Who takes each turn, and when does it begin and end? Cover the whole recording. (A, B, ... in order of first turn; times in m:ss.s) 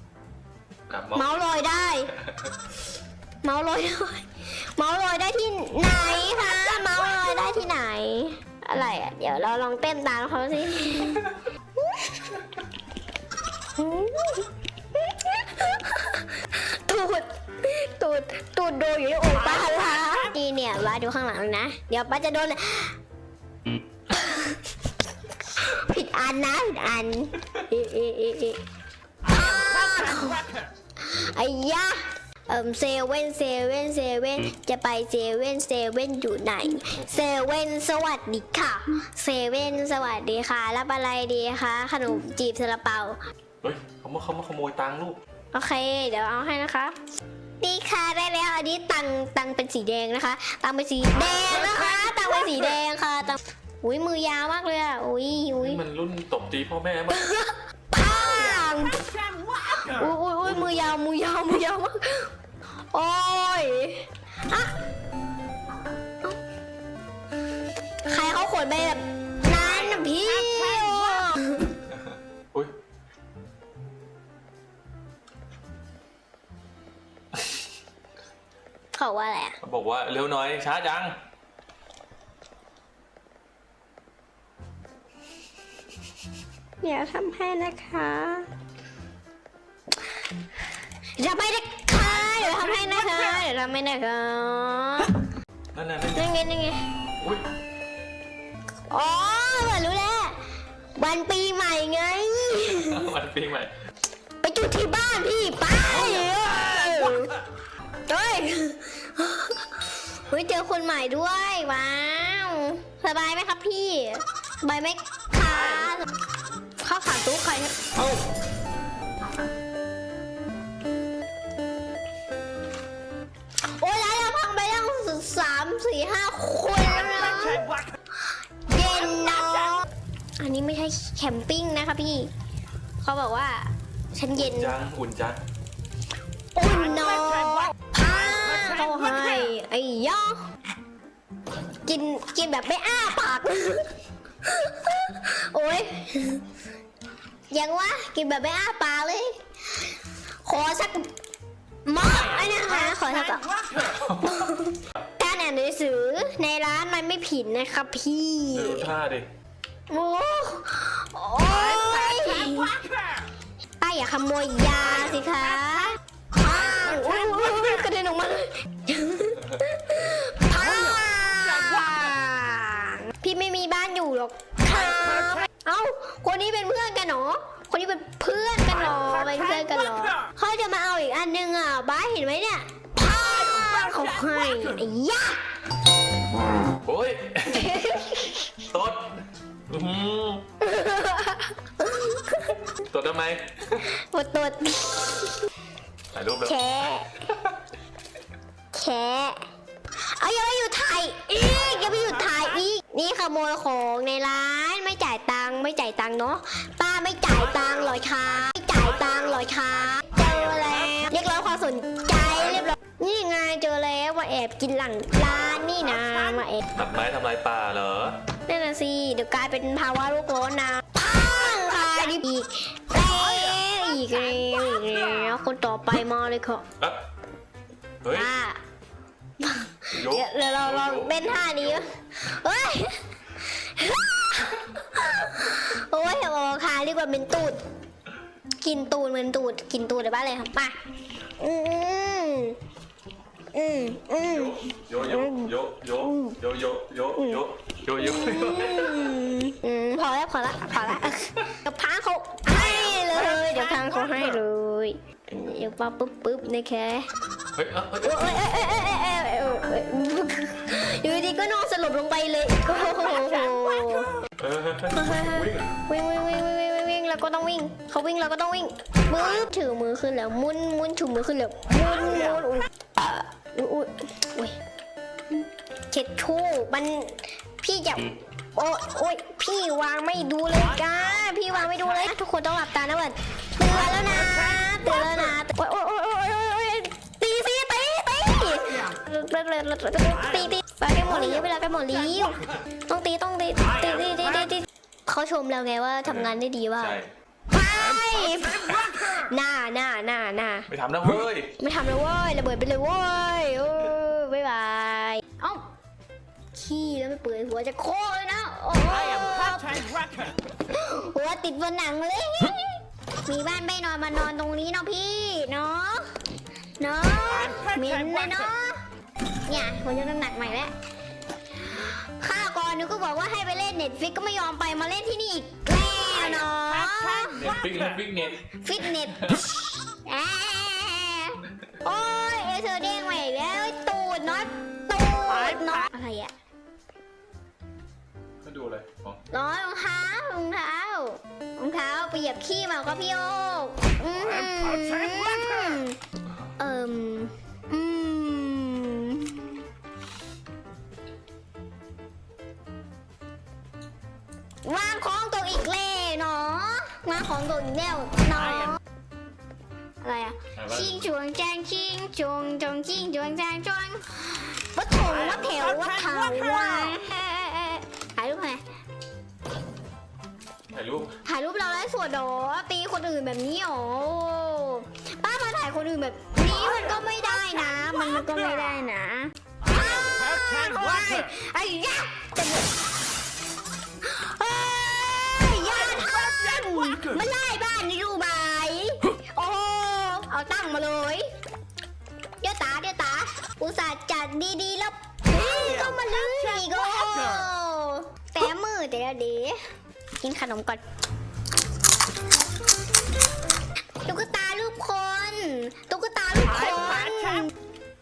0:00.9-0:01.3 A
0:01.2-0:02.1 B
0:02.2-0:02.6 A
0:03.4-0:04.2 B
0:04.8-0:12.4 B
0:13.8-0:23.0 B
0:19.4-0:20.3 C
0:24.1-0:24.6 B
0:25.6-0:28.6 B
0:29.2-0:30.7 C
0:29.3-0:30.4 B
0:31.0-0:43.2 B
0:43.6-0:45.2 A
0:45.5-0:47.0 B
0:47.6-0:55.8 B
0:51.2-0:52.4 C
0:55.6-0:57.3 A
0:57.1-0:59.0 B
0:58.0-1:00.1 C
0:59.9-1:02.3 B
1:02.9-1:04.7 B
1:08.1-1:11.7 B
1:09.6-1:11.4 C
1:11.9-1:12.7 A
1:19.0-1:19.6 B
1:19.6-1:21.2 A
1:26.8-1:28.5 B
1:31.2-1:35.1 B
1:32.2-1:33.4 C
1:35.7-1:36.3 A
1:36.2-1:36.8 B
1:37.2-1:37.5 A
1:38.9-1:40.4 B
1:41.0-1:43.1 B
1:42.8-1:43.7 A
1:44.4-1:47.3 B
1:48.1-1:56.0 B
1:56.8-1:58.2 B
2:03.8-2:07.7 B
2:06.9-2:07.9 C
2:08.7-2:09.9 B
2:10.4-2:12.3 B
2:13.0-2:14.7 B
2:14.4-2:15.4 A
2:16.6-2:20.4 B
2:17.0-2:17.7 C
2:21.9-2:23.9 B
2:24.4-2:26.4 B
2:27.5-2:29.9 B
2:30.4-2:31.1 B
2:31.9-2:33.5 B
2:32.1-2:34.0 C
2:34.0-2:34.4 A
2:34.2-2:38.9 B
2:38.5-2:39.3 A
2:39.9-2:42.8 B
2:41.4-2:43.3 C
2:43.8-3:05.4 B
2:46.7-2:47.7 C
2:50.6-2:52.1 C
2:58.8-3:00.2 C
3:03.0-3:04.8 C
3:06.8-3:07.8 A
3:07.5-3:08.5 B
3:08.7-3:10.5 A
3:10.6-3:12.5 B
3:12.8-3:13.9 A
3:14.1-3:15.4 B
3:16.1-3:16.6 A
3:16.4-3:17.2 B
3:17.3-3:17.5 A
3:18.7-3:19.4 B
3:20.2-3:36.7 B
3:30.2-3:31.0 C
3:36.8-3:38.2 A
3:38.5-3:46.6 B
3:43.0-3:43.8 C
3:48.0-3:48.3 A
3:48.1-3:48.6 B
3:49.4-3:57.6 B
3:49.9-3:51.9 A
3:58.6-4:00.8 B
4:01.4-4:02.6 B
4:03.5-4:06.4 B
4:04.2-4:09.1 A
4:07.2-4:07.4 B
4:08.0-4:17.1 B
4:12.5-4:14.4 C
4:17.5-4:18.4 A
4:18.0-4:24.1 B
4:24.4-4:25.7 A
4:24.9-4:34.6 B
4:35.9-4:57.0 B
4:43.9-4:44.3 C
4:56.0-4:57.1 A
4:57.5-5:00.7 B
4:58.0-4:59.2 C
5:00.7-5:01.6 A
5:01.6-5:05.6 B
5:06.5-5:09.8 B
5:08.8-5:10.4 C
5:10.7-5:16.1 B
5:16.8-5:18.8 B
5:17.3-5:18.5 C
5:19.5-5:20.7 B
5:22.2-5:27.6 B
5:26.4-5:28.0 C
5:27.4-5:28.4 A
5:28.6-5:36.3 B
5:29.1-5:29.4 A
5:38.4-5:39.2 A
5:39.3-5:46.0 B
5:44.1-5:45.8 C
5:46.6-5:49.6 B
5:54.6-5:58.8 B
6:00.0-6:08.6 B
6:00.6-6:00.9 A
6:10.7-6:11.2 A
6:11.3-6:22.7 B
6:19.6-6:21.4 C
6:24.0-6:31.3 B
6:25.8-6:27.2 C
6:32.4-6:39.6 B
6:35.3-6:37.5 C
6:40.2-6:40.8 B
6:44.1-6:47.5 B
6:46.7-6:47.5 C